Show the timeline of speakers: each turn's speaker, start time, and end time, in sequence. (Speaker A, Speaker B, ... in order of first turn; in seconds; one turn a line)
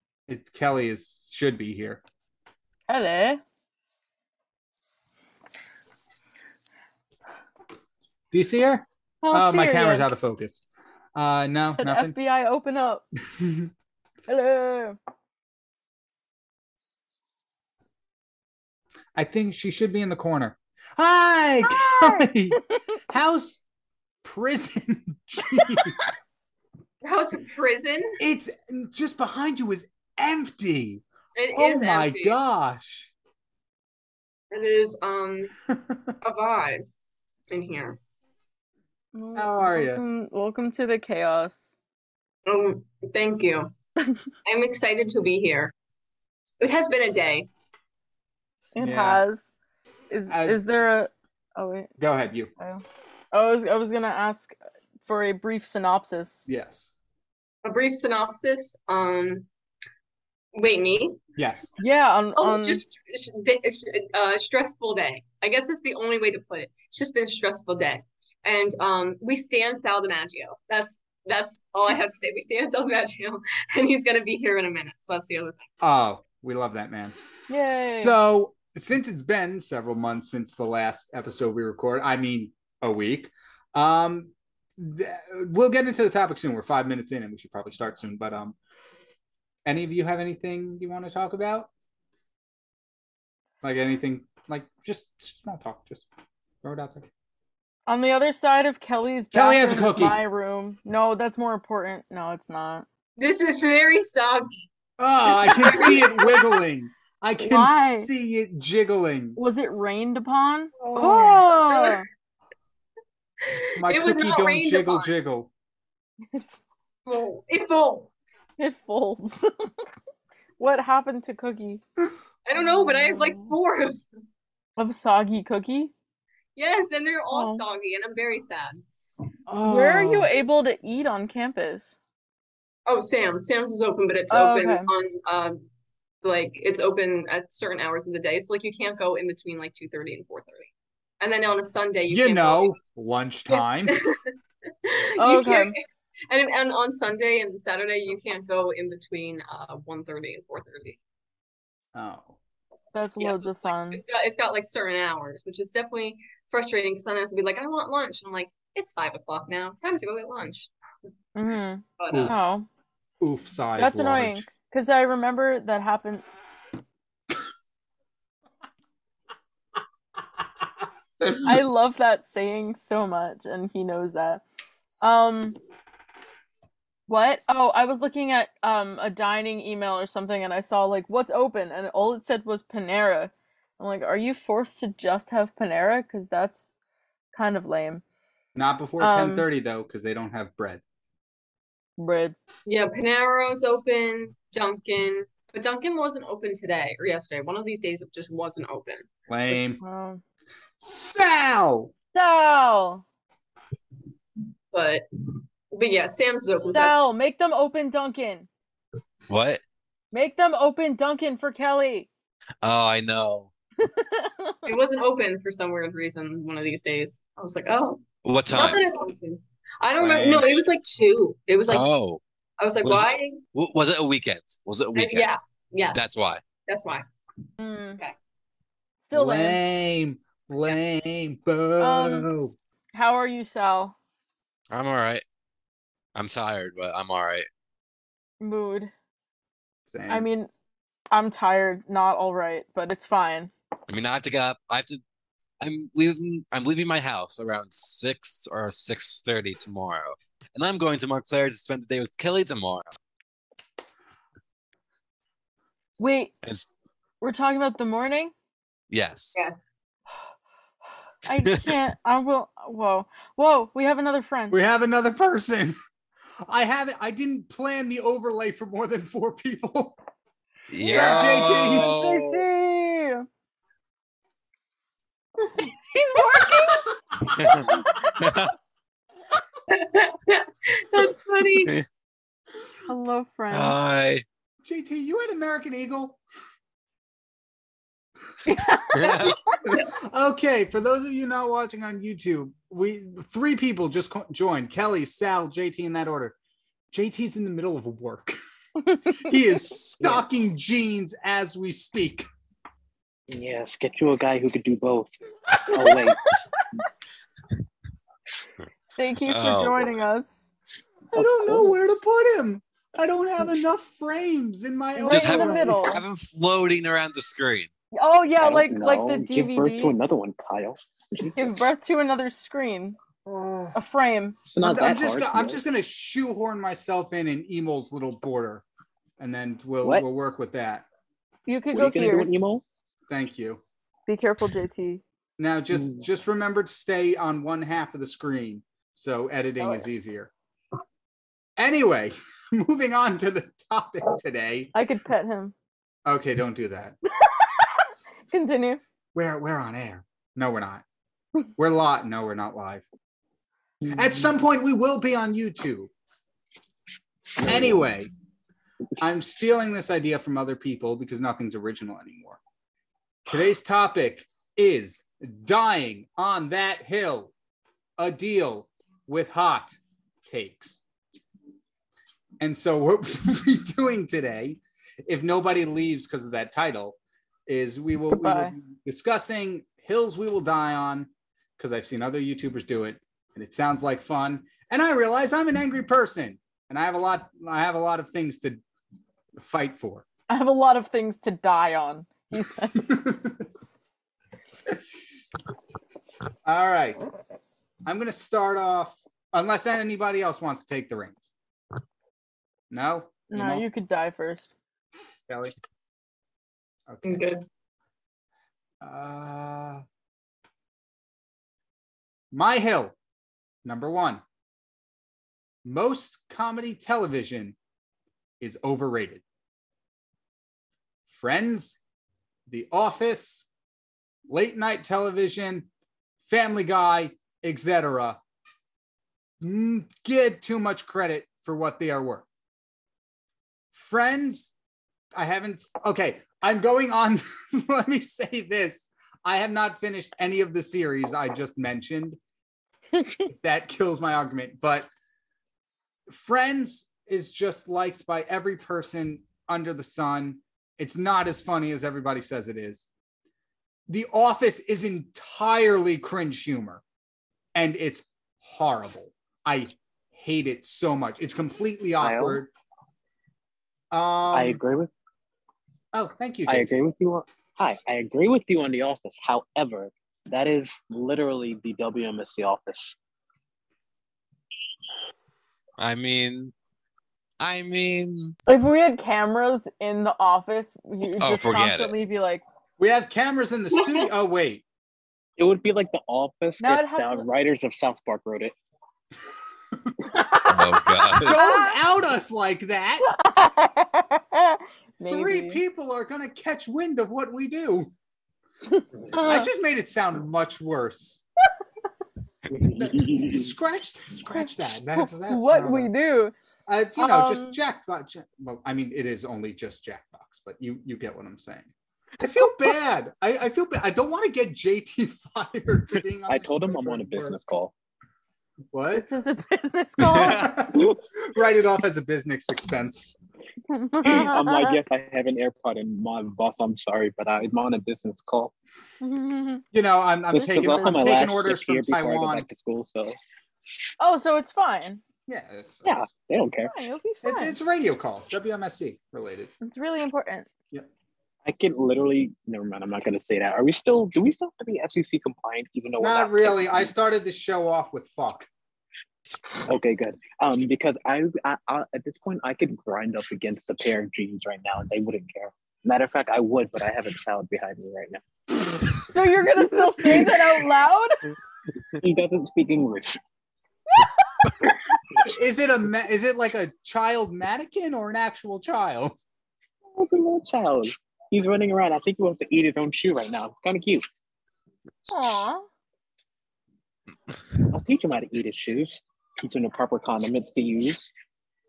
Speaker A: 0.3-2.0
Speaker B: 2.9-3.4
Speaker A: 8.3-12.2
Speaker B: 9.2-10.1
Speaker B: 11.7-13.1
Speaker A: 13.4-13.7
Speaker B: 14.3-15.0
Speaker A: 19.1-23.6
Speaker B: 21.7-22.2
Speaker A: 24.2-26.2
Speaker C: 27.0-28.2
Speaker A: 28.2-33.1
Speaker C: 31.4-32.4
Speaker C: 34.5-35.5
Speaker C: 36.2-36.9
Speaker C: 37.5-38.0
Speaker B: 39.1-41.7
Speaker A: 39.4-40.0
Speaker C: 42.5-43.7
Speaker C: 44.5-45.7
Speaker C: 46.6-47.5
Speaker B: 48.8-49.5
Speaker A: 48.8-49.2
Speaker B: 50.1-51.9
Speaker A: 50.3-50.9
Speaker A: 52.0-52.5
Speaker B: 52.6-56.4
Speaker A: 56.5-56.9
Speaker C: 57.6-59.5
Speaker C: 60.5-61.2
Speaker A: 61.4-61.7
Speaker B: 61.8-62.8
Speaker C: 62.4-75.7
Speaker A: 75.8-77.1
Speaker B: 77.5-78.2
Speaker A: 77.7-88.6
Speaker A: 89.7-91.7
Speaker A: 93.6-96.1
Speaker A: 96.6-97.1
Speaker B: 97.9-102.9
Speaker A: 99.3-100.2
Speaker C: 103.2-104.6
Speaker A: 105.0-109.4
Speaker C: 105.3-106.6
Speaker B: 105.7-106.0
Speaker B: 107.4-108.1
Speaker B: 109.4-112.1
Speaker A: 110.8-111.5
Speaker C: 111.7-112.0
Speaker C: 113.4-115.1
Speaker A: 113.8-115.5
Speaker C: 117.1-118.2
Speaker B: 118.6-119.5
Speaker B: 120.6-121.8
Speaker C: 122.5-124.1
Speaker B: 123.0-123.3
Speaker B: 124.8-125.9
Speaker C: 126.6-129.1
Speaker B: 127.3-127.6
Speaker A: 129.5-130.3
Speaker B: 129.6-131.9
Speaker C: 132.9-135.7
Speaker B: 134.3-134.9
Speaker C: 136.2-142.8
Speaker A: 142.1-144.0
Speaker C: 143.5-144.3
Speaker C: 144.8-145.8
Speaker B: 145.2-145.8
Speaker C: 146.3-151.0
Speaker A: 151.9-152.4
Speaker B: 152.9-154.0
Speaker C: 153.2-160.7
Speaker B: 161.3-162.7
Speaker C: 162.0-162.4
Speaker A: 162.1-162.4
Speaker A: 163.2-164.5
Speaker B: 163.8-166.2
Speaker B: 171.3-174.4
Speaker B: 175.0-175.6
Speaker B: 177.1-186.7
Speaker B: 187.3-188.0
Speaker A: 188.6-190.8
Speaker B: 189.0-189.5
Speaker B: 192.0-192.4
Speaker C: 192.7-199.1
Speaker A: 199.3-199.8
Speaker B: 199.5-200.2
Speaker A: 200.8-201.9
Speaker B: 202.1-203.0
Speaker C: 204.7-207.0
Speaker B: 206.7-208.5
Speaker D: 209.3-209.6
Speaker B: 210.1-212.1
Speaker D: 212.6-213.5
Speaker B: 213.8-214.7
Speaker C: 214.7-221.9
Speaker D: 218.2-218.8
Speaker A: 220.0-220.5
Speaker D: 221.7-222.2
Speaker C: 222.6-223.4
Speaker D: 222.8-225.4
Speaker C: 224.9-226.1
Speaker D: 225.9-226.4
Speaker C: 226.7-227.1
Speaker B: 227.6-228.0
Speaker B: 229.1-229.6
Speaker A: 229.1-232.6
Speaker B: 231.8-232.3
Speaker B: 232.9-233.9
Speaker D: 234.7-235.2
Speaker D: 236.2-237.5
Speaker B: 238.4-238.9
Speaker A: 239.9-240.3
Speaker B: 240.1-240.5
Speaker B: 241.1-243.5
Speaker D: 243.9-245.0
Speaker D: 245.6-252.9
Speaker B: 256.0-256.3
Speaker D: 256.4-256.7
Speaker B: 257.2-258.3
Speaker D: 258.9-259.4
Speaker B: 261.2-264.6
Speaker D: 261.4-261.8
Speaker A: 264.5-265.8
Speaker A: 266.4-270.0
Speaker D: 270.7-272.4
Speaker B: 270.8-273.3
Speaker A: 270.8-271.9
Speaker B: 275.6-276.9
Speaker D: 277.4-278.5
Speaker B: 277.5-278.1
Speaker C: 279.7-281.7
Speaker D: 281.6-281.9
Speaker B: 282.9-283.8
Speaker D: 283.5-284.2
Speaker A: 284.6-286.2
Speaker B: 288.5-289.6
Speaker D: 288.9-289.4
Speaker A: 289.6-296.4
Speaker A: 296.9-298.4
Speaker A: 299.2-302.3
Speaker E: 303.3-306.6
Speaker B: 309.0-310.5
Speaker D: 309.3-309.9
Speaker A: 311.1-315.8
Speaker E: 311.1-311.8
Speaker B: 315.0-316.0
Speaker D: 315.1-317.7
Speaker B: 318.0-320.0
Speaker E: 318.4-321.5
Speaker B: 321.4-323.0
Speaker A: 323.2-323.8
Speaker B: 323.7-324.4
Speaker E: 324.5-325.6
Speaker A: 324.6-328.6
Speaker A: 329.2-330.9
Speaker B: 331.5-332.3
Speaker E: 331.7-332.6
Speaker A: 333.1-333.6
Speaker B: 334.1-335.0
Speaker A: 335.4-340.3
Speaker A: 341.6-344.7
Speaker B: 344.7-345.6
Speaker A: 346.1-347.0
Speaker B: 347.2-347.7
Speaker B: 348.3-348.8
Speaker A: 349.1-350.8
Speaker A: 351.6-352.9
Speaker A: 353.9-355.9
Speaker A: 357.4-358.1
Speaker E: 357.4-357.9
Speaker A: 359.0-362.4
Speaker A: 363.3-367.3
Speaker A: 368.0-370.8
Speaker A: 372.4-388.6
Speaker B: 378.1-378.6
Speaker A: 389.4-390.1
Speaker B: 390.3-393.0
Speaker A: 392.9-393.3
Speaker A: 396.4-397.0
Speaker A: 397.9-401.3
Speaker A: 402.7-403.7
Speaker B: 403.3-404.5
Speaker A: 405.3-405.5
Speaker A: 406.9-407.4
Speaker C: 407.1-407.4
Speaker A: 408.8-409.8
Speaker A: 412.3-413.0
Speaker A: 413.6-414.2
Speaker A: 415.6-417.6
Speaker A: 418.4-419.2
Speaker A: 421.1-421.8
Speaker A: 422.5-423.5
Speaker A: 424.3-425.7
Speaker A: 426.2-428.2
Speaker A: 429.4-432.3
Speaker A: 433.7-434.5
Speaker A: 435.1-442.2
Speaker A: 443.3-444.9
Speaker A: 446.1-452.9
Speaker A: 453.9-456.8
Speaker A: 457.6-462.5
Speaker E: 462.0-462.4
Speaker A: 463.9-464.6
Speaker E: 464.3-464.9
Speaker A: 465.9-466.7
Speaker E: 466.5-473.0
Speaker D: 475.8-476.5
Speaker D: 477.4-478.4
Speaker B: 478.5-482.4
Speaker D: 481.2-481.9
Speaker A: 482.8-484.6
Speaker E: 485.4-488.6
Speaker B: 486.6-487.3
Speaker B: 490.2-490.5
Speaker D: 490.5-491.4
Speaker B: 491.1-491.7
Speaker A: 491.1-493.1
Speaker B: 493.1-495.6
Speaker A: 495.0-497.9
Speaker B: 499.1-499.5
Speaker A: 499.1-501.2
Speaker E: 502.5-503.5
Speaker A: 502.8-505.9
Speaker B: 504.3-506.3
Speaker A: 506.7-517.4
Speaker B: 507.0-507.6
Speaker E: 516.3-517.7
Speaker A: 518.7-519.1
Speaker B: 518.9-520.5
Speaker A: 520.0-523.1
Speaker D: 520.1-520.5
Speaker B: 523.7-524.8
Speaker E: 524.0-528.5
Speaker B: 529.0-529.6
Speaker A: 529.7-532.5
Speaker E: 530.3-533.2
Speaker B: 530.4-531.1
Speaker B: 534.0-535.0
Speaker A: 535.3-536.1
Speaker E: 535.9-536.7
Speaker B: 536.7-537.6
Speaker A: 537.2-539.5
Speaker B: 539.6-540.5
Speaker E: 541.5-546.9
Speaker A: 546.0-548.5
Speaker E: 549.6-558.6
Speaker B: 559.1-561.3
Speaker E: 562.0-563.2
Speaker A: 565.2-569.2
Speaker E: 569.9-574.0
Speaker B: 575.1-575.7
Speaker E: 577.7-581.1